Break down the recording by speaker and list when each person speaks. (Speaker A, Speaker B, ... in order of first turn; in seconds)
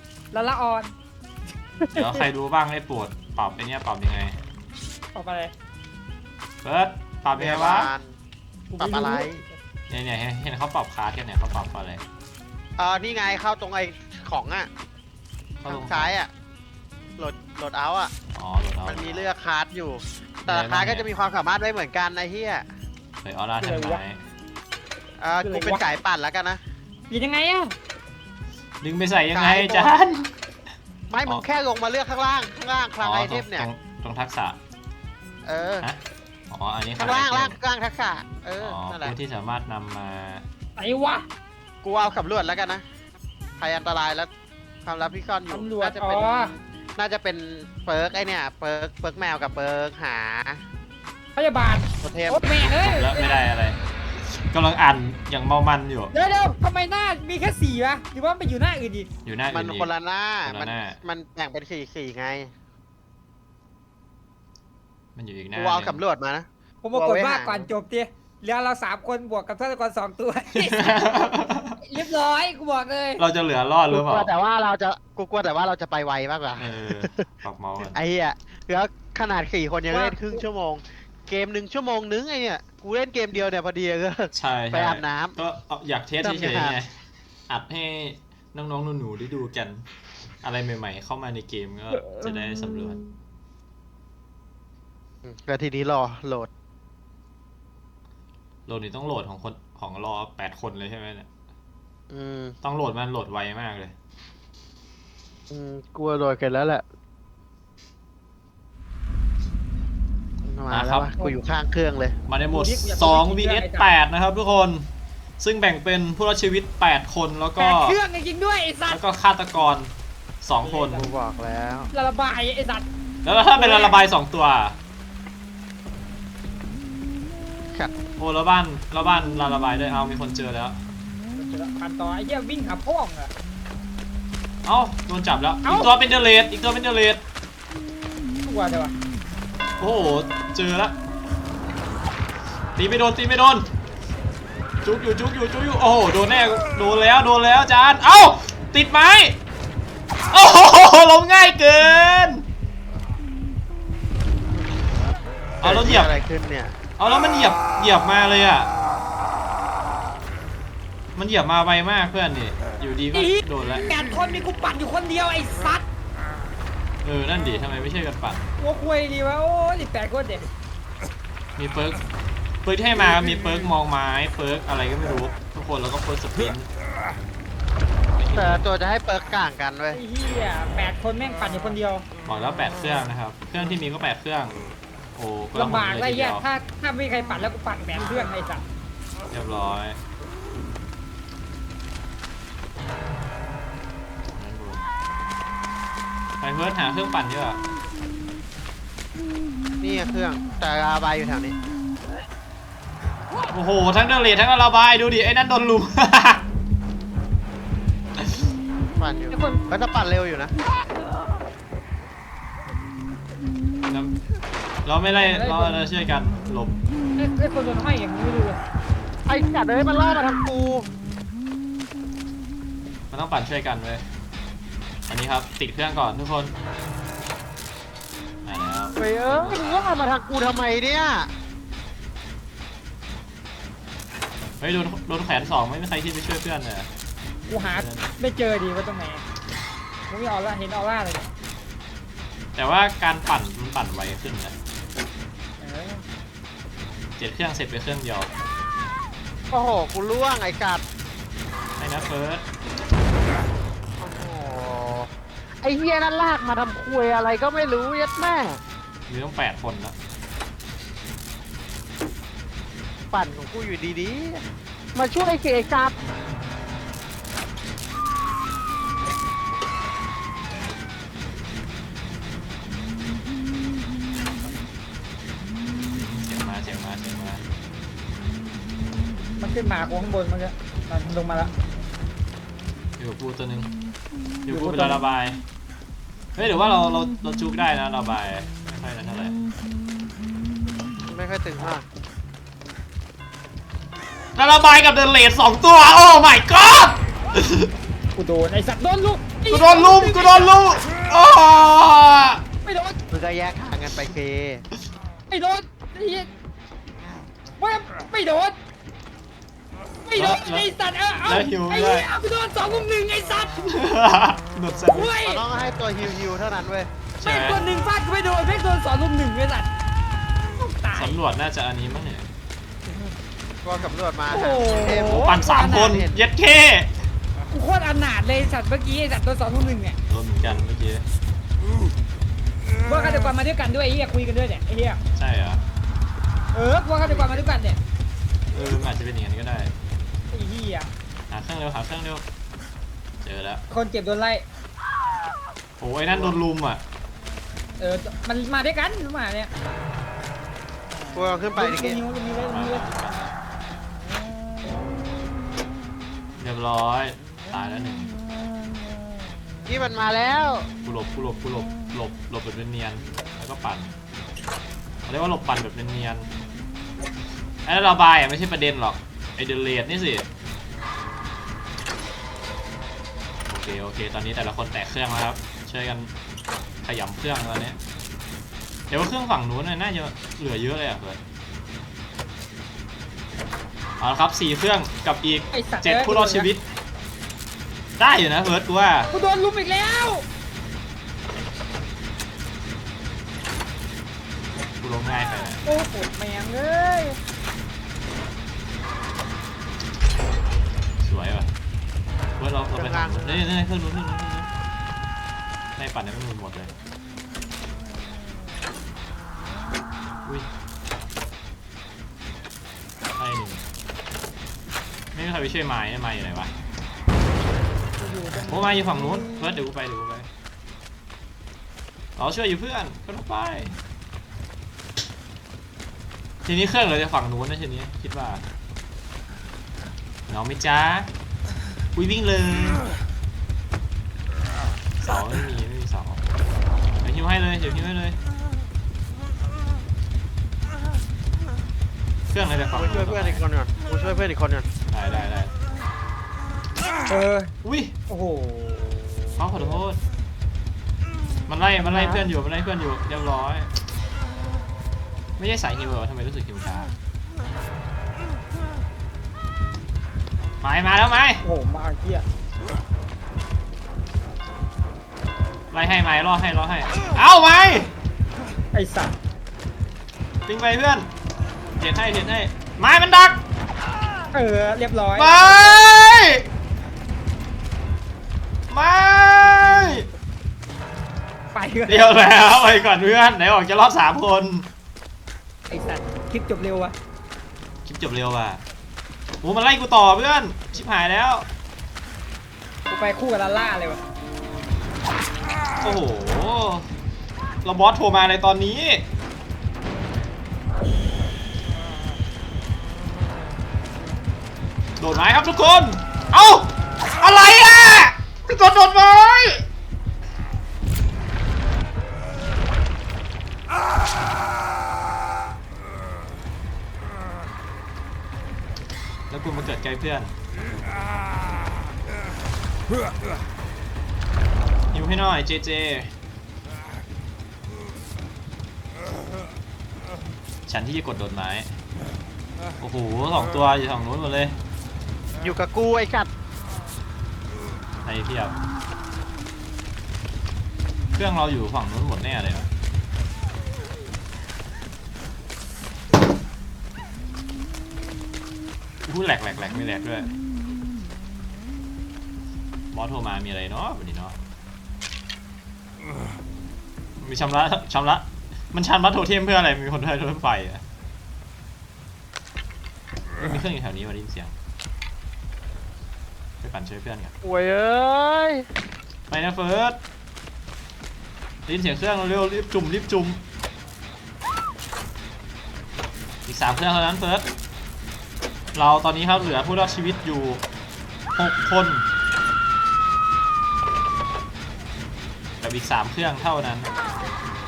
Speaker A: 0.3-0.9, 1.8-2.2, 5.1-5.5, 8.7-9.6, 23.6-24.0, 25.4-25.8, 27.1-27.8, 40.8-41.3, 45.5-46.5, 51.4-53.4, 56.1-59.1, 66.8-71.1, 71.8-73.2, 79.9-80.4, 112.5-113.9, 117.6-119.0, 120.7-121.0, 121.9-122.9, 123.4-124.0, 131.3-133.3, 135.6-135.9, 138.4-139.0, 163.1-165.8, 168.6-170.5, 179.9-182.1, 185.5-188.6, 209.3-209.6, 215.1-215.8, 217.2-218.6, 237.5-239.2, 240.1-241.3, 245.6-246.0, 279.4-281.5, 284.5-285.0, 298.1-300.6, 302.6-303.0, 305.3-306.3, 307.6-308.6, 310.1-313.7, 314.9-315.4, 317.2-319.7, 320.6-321.2, 324.3-326.0, 327.5-330.0, 332.8-335.0, 336.5-337.8, 340.3-340.9, 343.7-344.4, 347.8-349.5, 351.5-352.9, 385.5-386.5, 389.1-390.2, 395.6-397.2, 418.0-419.6, 447.1-447.5, 448.1-449.8, 451.8-452.2, 461.4-462.2, 468.7-469.1, 474.3-475.8, 479.6-480.1, 481.5-482.1, 485.7-486.9, 492.9-494.0
Speaker B: 1.9-4.4, 6.6-7.9, 9.9-12.0, 15.6-16.2, 18.4-19.3, 20.5-21.1, 23.2-24.2, 28.8-30.3, 33.0-34.6, 36.5-37.6, 38.6-40.5, 52.6-53.8, 54.4-56.1, 59.2-59.9, 60.4-61.0, 65.2-66.0, 70.7-71.8, 73.2-74.3, 76.6-78.0, 84.3-86.9, 87.5-89.8, 90.4-93.0, 98.7-101.3, 102.6-104.0, 110.7-111.3, 112.3-114.9, 115.4-118.0, 118.9-121.1, 123.2-124.8, 128.2-130.8, 134.7-137.2, 139.8-140.9, 142.8-143.7, 144.8-149.4, 150.3-152.4, 155.6-156.1, 157.0-158.7, 161.2-163.9, 167.0-168.4, 171.6-172.0, 172.6-176.7, 178.2-178.7, 182.3-184.6, 185.2-186.4, 189.3-190.0, 194.4-194.8, 196.4-197.6, 203.5-206.4, 213.9-214.2, 214.8-216.8, 223.1-224.1, 225.1-226.5, 228.4-230.0, 234.6-236.9, 237.6-238.1, 242.6-244.6, 247.2-248.3, 251.8-252.4, 259.1-260.0, 275.9-277.4, 283.0-283.8, 284.4-285.4, 286.4-289.4, 294.4-297.7, 299.5-302.4, 310.1-310.7, 311.2-312.1, 313.7-315.2, 317.2-317.6, 320.9-322.3, 324.9-326.9, 330.1-331.1, 335.2-335.6, 338.5-339.7, 341.3-342.2, 343.2-343.6, 345.8-346.8, 352.5-353.4, 356.4-358.1, 360.8-363.9, 365.1-366.3, 367.6-370.3, 373.5-376.1, 376.8-377.8, 378.9-381.2, 384.0-386.6, 388.0-389.1, 394.8-395.6, 401.0-401.5, 402.4-404.5, 405.8-406.7, 413.2-413.6, 415.1-416.5, 418.4-420.3, 422.2-423.8, 426.4-428.4, 430.3-431.1, 432.0-432.8, 435.0-436.2, 437.0-438.2, 442.3-443.4, 444.9-445.5, 447.6-447.9, 449.4-450.0, 451.5-453.7, 455.4-456.9, 460.6-461.4, 465.7-467.9, 470.5-471.1, 471.8-473.4, 475.2-476.4, 478.7-480.1, 481.9-484.7, 487.9-488.6, 489.4-491.5, 495.8-496.9, 497.6-499.0, 505.0-509.6, 519.3-520.3, 524.9-526.1, 530.7-531.7, 532.8-534.6, 538.0-538.5, 541.1-542.7, 549.0-550.3, 552.9-554.4, 557.2-560.8, 563.4-564.5, 566.6-567.3, 569.3-570.0, 571.7-573.4, 576.5-577.5, 578.8-580.6, 581.4-582.1, 585.6-587.0
Speaker C: 7.3-8.2, 8.8-9.4, 12.8-14.7, 15.7-16.3, 17.2-18.1, 18.8-22.7, 25.2-26.6, 29.3-30.0, 31.1-33.7, 35.5-35.9, 37.0-39.2, 41.8-42.9, 43.6-44.3, 44.8-46.3, 47.0-50.6, 52.0-52.5, 59.5-62.5, 65.6-67.7, 73.9-77.2, 77.9-85.4, 86.2-86.8, 95.2-96.5, 102.1-102.6, 105.5-106.8, 110.4-112.2, 120.9-121.9, 155.6-156.8, 178.3-180.0, 199.8-201.6, 209.0-210.5, 219.3-220.9, 229.0-231.3, 249.5-250.8, 254.0-255.1, 255.6-258.6, 263.1-264.4, 264.9-265.9, 291.1-291.9, 303.1-304.6, 315.2-316.9, 323.6-326.3, 337.0-337.4, 346.1-346.4, 351.1-352.0, 359.7-360.7, 402.7-403.5, 442.7-444.7, 535.4-536.3, 567.4-568.7